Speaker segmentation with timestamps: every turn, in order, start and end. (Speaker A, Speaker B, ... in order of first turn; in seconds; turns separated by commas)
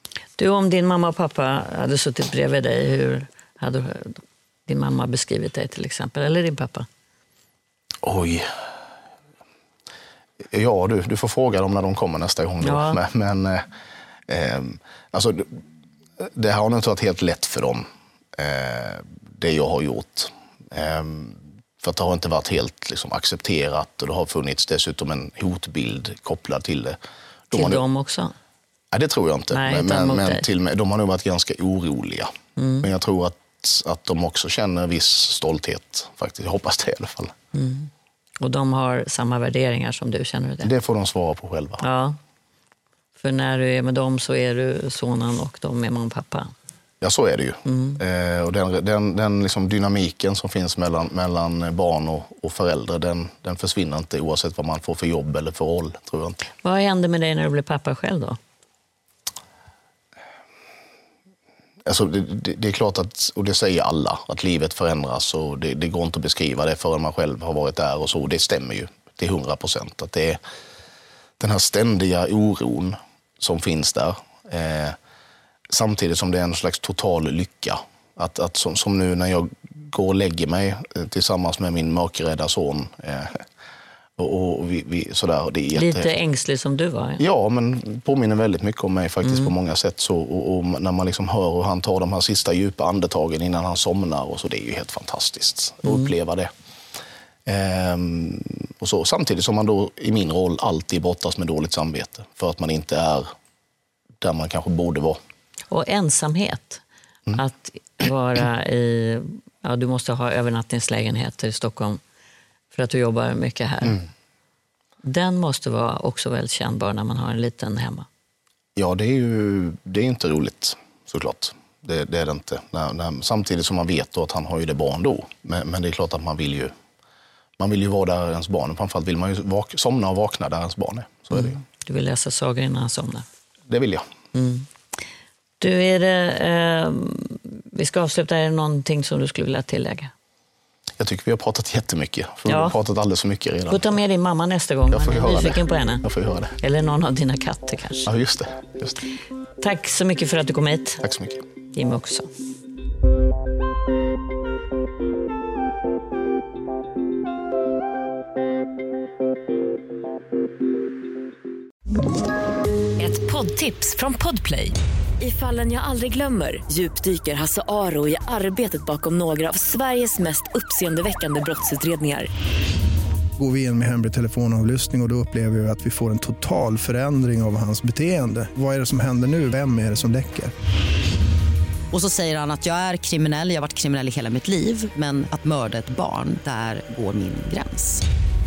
Speaker A: 0.4-6.9, Speaker B: 8.0-8.5, Speaker B: 10.5-13.7, Speaker A: 12.6-13.0, Speaker B: 14.3-15.6, Speaker B: 16.2-27.0, Speaker B: 27.5-27.8, Speaker A: 27.5-28.3, Speaker B: 28.9-37.3, Speaker A: 29.5-30.4, Speaker A: 32.6-32.9, Speaker A: 37.5-40.7, Speaker B: 40.6-41.8, Speaker A: 41.8-42.2, Speaker A: 43.2-46.5, Speaker B: 47.0-56.4, Speaker A: 47.6-48.0, Speaker A: 56.6-58.4, Speaker B: 61.8-70.4, Speaker B: 71.4-75.0, Speaker B: 75.7-83.4, Speaker B: 84.2-86.1, Speaker A: 85.7-87.2, Speaker B: 87.2-96.5, Speaker A: 95.8-96.1, Speaker B: 97.5-103.3, Speaker B: 104.2-105.2, Speaker A: 105.7-106.8, Speaker A: 107.3-112.0, Speaker A: 112.7-114.0, Speaker A: 115.0-118.0, Speaker B: 118.8-126.7, Speaker B: 127.6-131.6, Speaker A: 131.3-133.2, Speaker B: 133.7-134.1, Speaker A: 134.3-134.7, Speaker A: 135.6-140.1, Speaker B: 141.0-143.9, Speaker A: 142.5-142.8, Speaker A: 143.7-146.0, Speaker B: 144.9-146.6, Speaker A: 146.6-148.1, Speaker B: 148.1-149.0, Speaker A: 149.6-151.0, Speaker B: 151.0-151.4, Speaker A: 151.7-152.3, Speaker C: 163.0-172.3, Speaker D: 173.4-180.5, Speaker E: 181.9-188.0